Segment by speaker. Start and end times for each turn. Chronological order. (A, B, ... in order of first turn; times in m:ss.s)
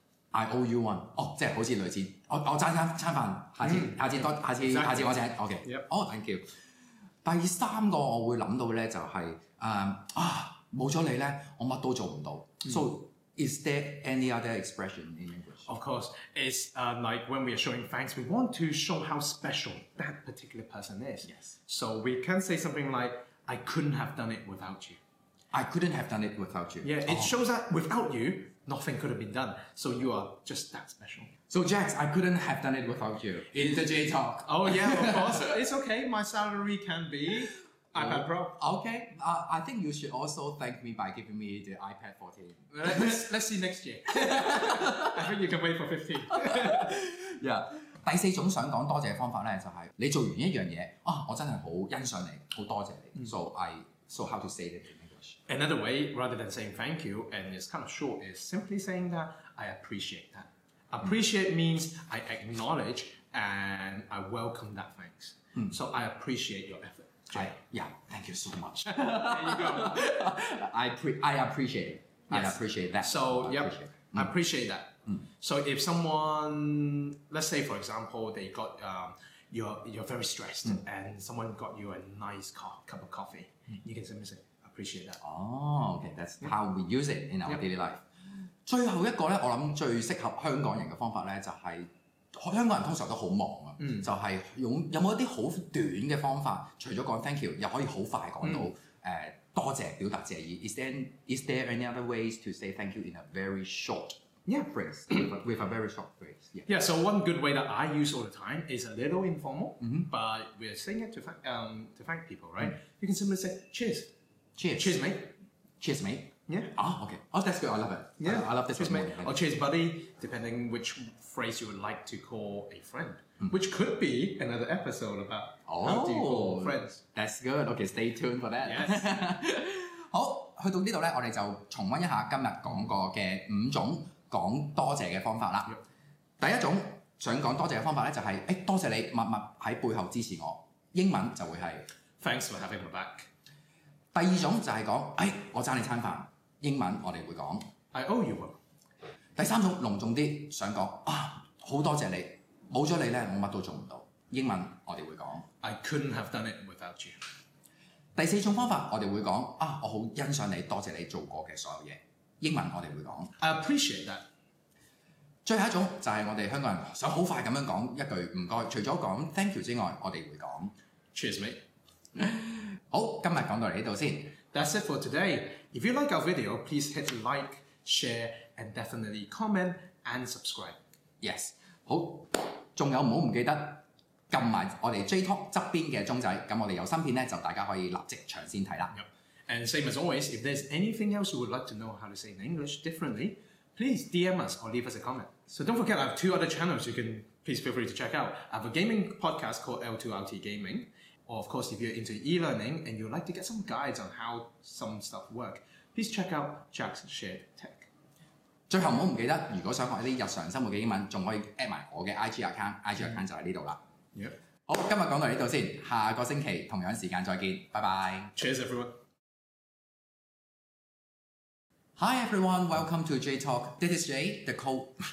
0:00.3-0:06.5 A
0:03.6-0:05.8 B
0:07.2-0:15.7 A
0:15.7-0:25.0 B
0:25.5-0:27.3 A
0:26.8-0:31.3 B
0:31.5-0:35.5 A
0:34.4-0:38.6 B
0:38.0-0:43.2 A
0:42.7-0:47.0 B
0:44.2-0:45.1 A
0:46.4-0:55.4 A
0:55.5-1:07.5 B
1:07.3-1:14.3 A
1:08.9-1:10.1 B
1:12.3-1:25.2 B
1:25.2-1:28.0 A
1:28.6-1:46.7 A
1:46.7-1:54.1 B
1:49.8-1:50.1 A
1:54.6-1:55.0 A
1:54.8-1:55.3 B
1:55.8-1:59.4 A
1:56.5-1:56.8 B
1:58.2-2:07.0 B
2:05.7-2:15.8 A
2:08.6-2:09.1 B
2:16.4-2:21.9 A
2:22.2-2:23.3 B
2:24.1-2:27.7 A
2:27.9-2:28.6 B
2:29.4-2:35.5 A
2:35.6-2:37.2 B
2:38.2-2:43.3 A
2:43.4-2:44.2 B
2:45.4-2:50.7 A
2:51.1-2:51.6 B
2:52.2-2:54.4 A
2:54.5-3:00.8 B
3:01.2-3:08.9 A
3:08.9-3:27.9 B
3:28.7-3:33.8 A
3:34.7-3:38.3 A
3:38.4-3:39.0 B
3:42.0-3:45.0 A